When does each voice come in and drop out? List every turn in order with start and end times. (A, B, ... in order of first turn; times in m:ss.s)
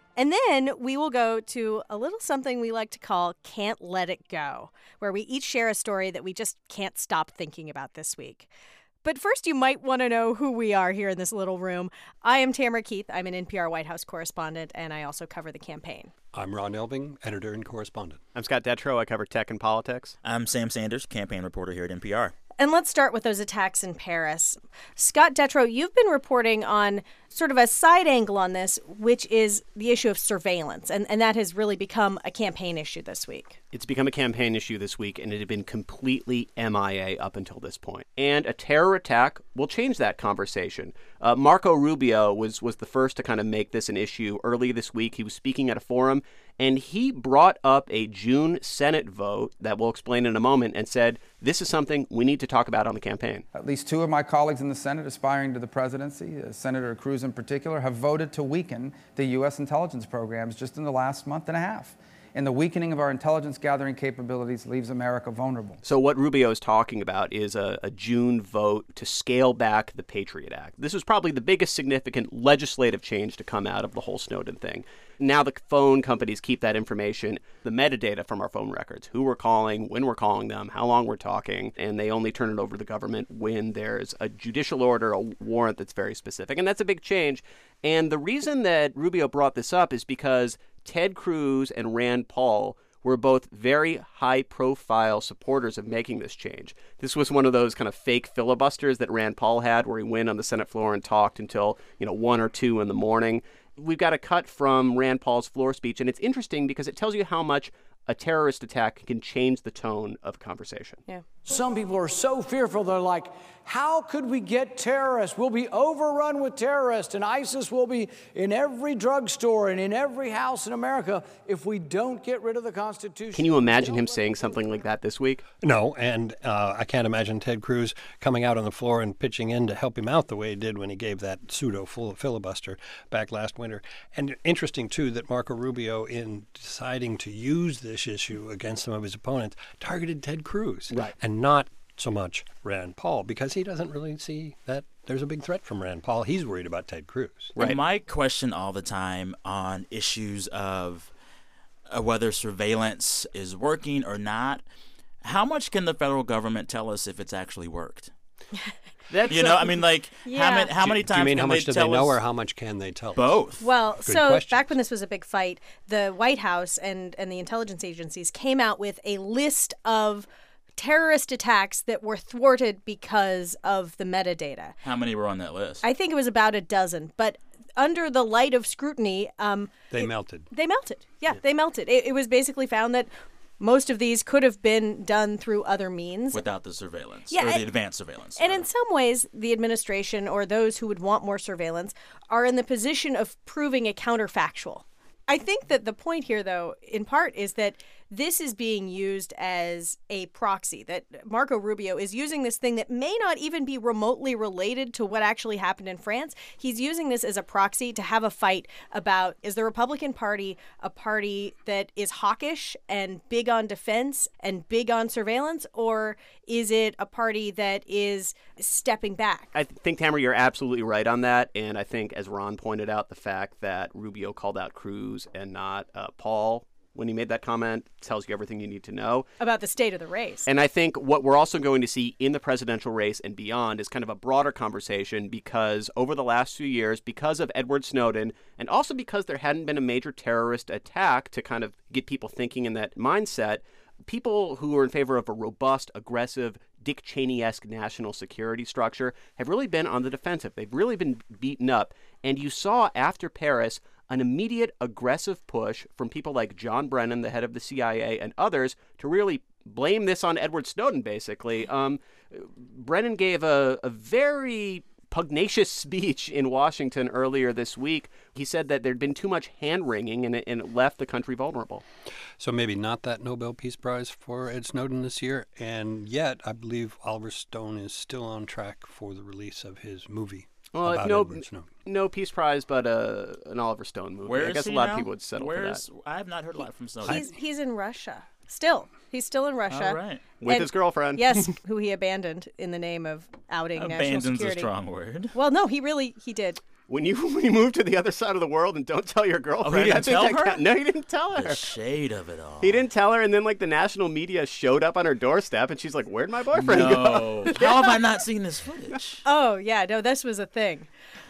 0:00.2-0:08.5 A
0:09.0-0:16.1 A
0:16.3-0:18.2 B
0:18.4-0:20.2 C
0:20.2-0:22.4 D
0:22.6-0:33.6 A
0:33.7-0:53.4 C
0:53.5-1:05.8 E
1:05.8-1:51.0 C
1:51.4-2:04.6 F
2:03.3-2:05.4 C
2:05.6-2:27.5 B
2:27.6-2:31.1 D
2:31.9-2:34.6 D
2:35.2-2:38.1 D
2:39.1-2:39.8 C
2:39.3-2:42.2 D
2:40.2-2:40.7 A
2:40.8-2:43.4 B
2:43.2-2:43.6 D
2:43.6-2:54.8 A
2:44.0-2:44.7 B
2:54.8-2:55.8 D
2:55.8-3:03.1 A
2:59.9-3:00.5 B
3:03.6-3:06.4 A
3:06.3-3:08.7 D
3:07.3-3:07.7 A
3:08.4-3:39.5 A
3:39.5-3:49.3 C
3:49.4-3:50.5 A
3:50.5-4:31.8 C
4:32.4-4:41.7 B
4:40.7-4:45.8 C
4:44.3-4:47.2 D
4:47.1-4:54.7 A
4:49.7-4:50.2 D
4:50.4-4:51.5 C
4:53.8-4:55.3 D
4:55.3-4:56.6 A
4:56.9-5:01.7 C
4:59.6-5:00.6 D
5:01.4-5:02.8 D
5:02.6-5:08.0 C
5:06.5-5:09.2 D
5:09.2-5:10.9 A